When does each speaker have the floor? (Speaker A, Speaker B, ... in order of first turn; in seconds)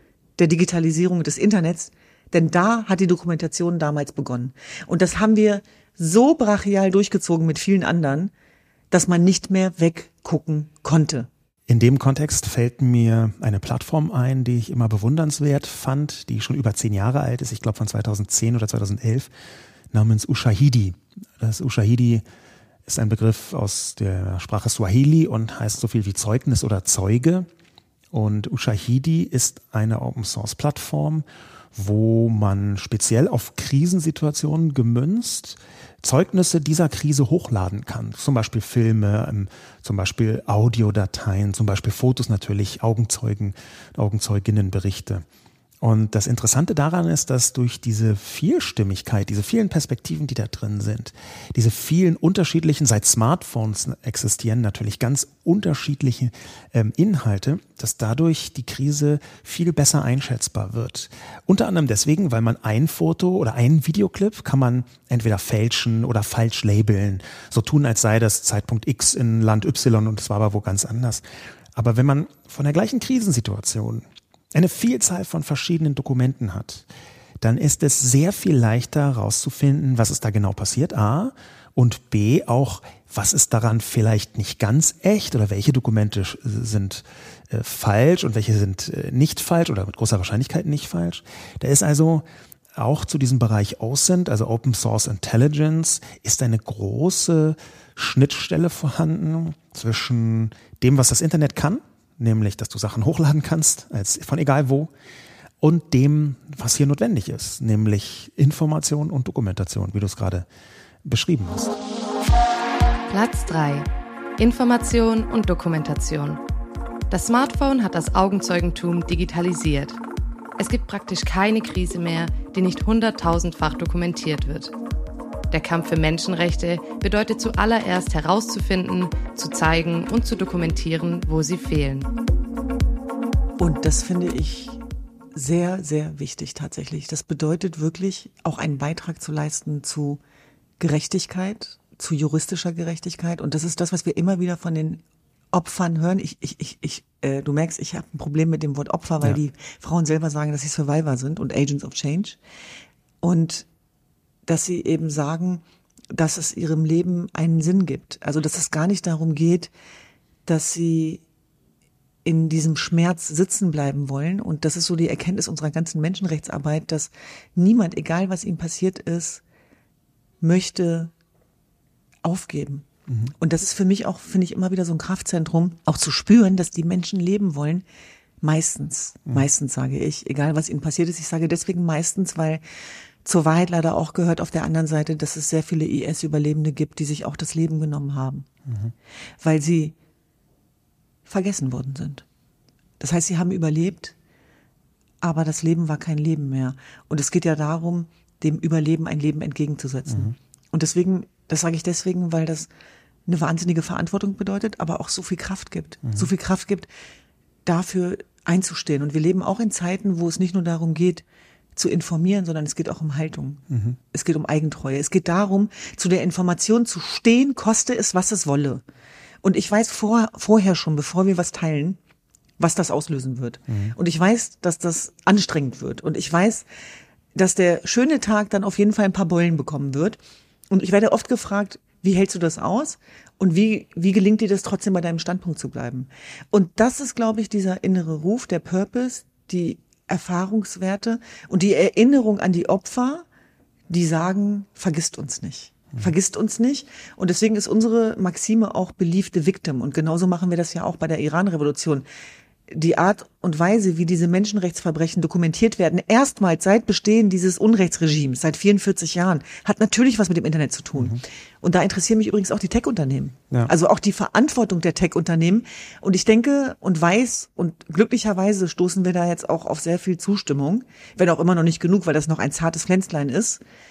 Speaker A: 0.4-8.3, 8.9-11.3, 133.6-134.8, 135.3-140.2, 140.8-145.0, 145.5-152.4, 153.2-153.7, 154.4-159.7, 160.4-161.2, 162.2-169.4, 170.4-171.1, 172.2-172.9, 173.4-177.8, 178.4-182.6, 183.2-188.5, 189.4-189.9, 191.2-192.2, 193.0-194.1, 195.2-202.7, 203.3-206.9, 207.6-211.2, 211.7-218.8, 219.4-222.0, 222.6-226.7, 227.3-230.2, 230.7-243.2, 243.9-252.0, 252.7-273.6
Speaker B: 11.7-19.3, 19.9-22.2, 22.9-27.5, 28.1-45.2, 45.8-71.2, 71.7-76.9, 77.4-92.2, 92.8-104.9, 105.6-110.5, 111.0-111.8, 173.1-173.3, 188.7-188.9, 213.7-214.0, 223.7-223.9
Speaker C: 113.1-116.4, 117.1-120.0, 120.6-124.7, 125.5-132.1